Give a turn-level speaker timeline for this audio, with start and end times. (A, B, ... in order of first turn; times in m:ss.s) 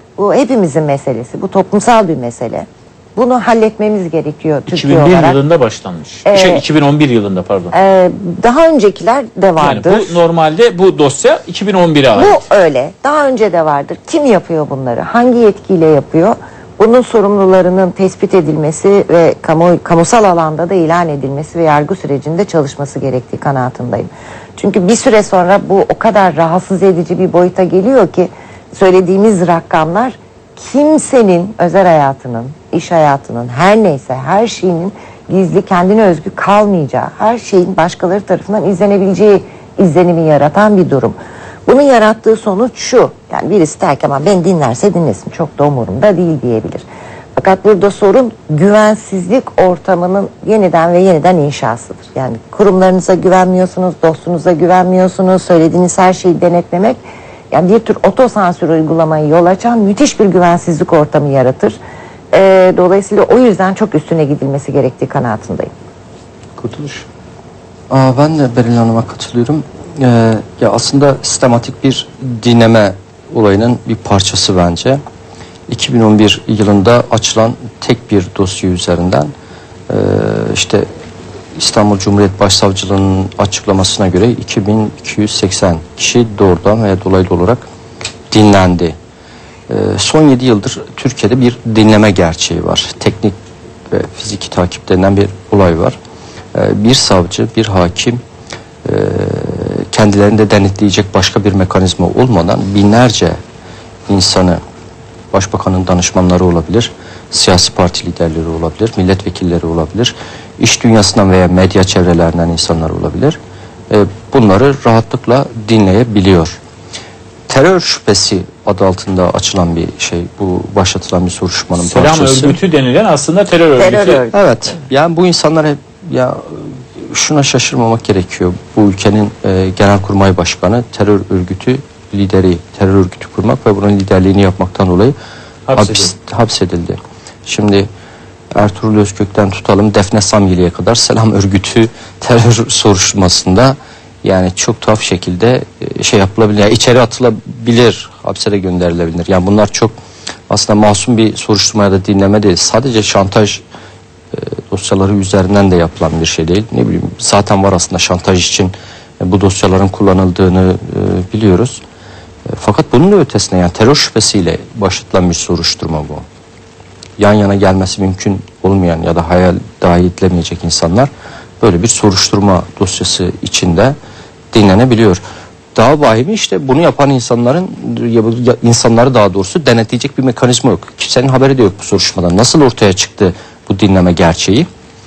0:00.2-0:05.4 A
0:04.7-0:07.7 B
0:06.2-0:06.6 A
0:07.7-0:10.2 A
0:09.6-0:12.4 B
0:12.1-0:46.8 A
0:47.4-0:57.0 A
0:57.5-1:01.8 A
1:02.3-1:05.7 A
1:06.6-1:07.0 B
1:07.9-1:15.0 C
1:15.7-1:19.3 C
1:19.9-1:20.8 C
1:21.6-1:27.6 C
1:28.3-1:28.9 C
1:29.7-1:33.4 C
1:33.9-1:36.0 C
1:36.5-1:38.2 C
1:38.8-1:43.4 C
1:44.1-1:44.6 C
1:45.3-1:53.4 C
1:53.9-1:56.6 C
1:57.5-2:02.6 C
2:01.7-2:04.2 B
2:03.8-2:04.4 A
2:04.3-2:15.1 C
2:15.7-2:16.1 B
2:15.8-2:17.9 C
2:18.5-2:29.9 C
2:30.5-2:33.6 C
2:34.3-2:41.8 C
2:42.5-2:46.2 C
2:47.2-2:54.0 C
2:54.5-2:55.2 C
2:55.7-3:04.7 C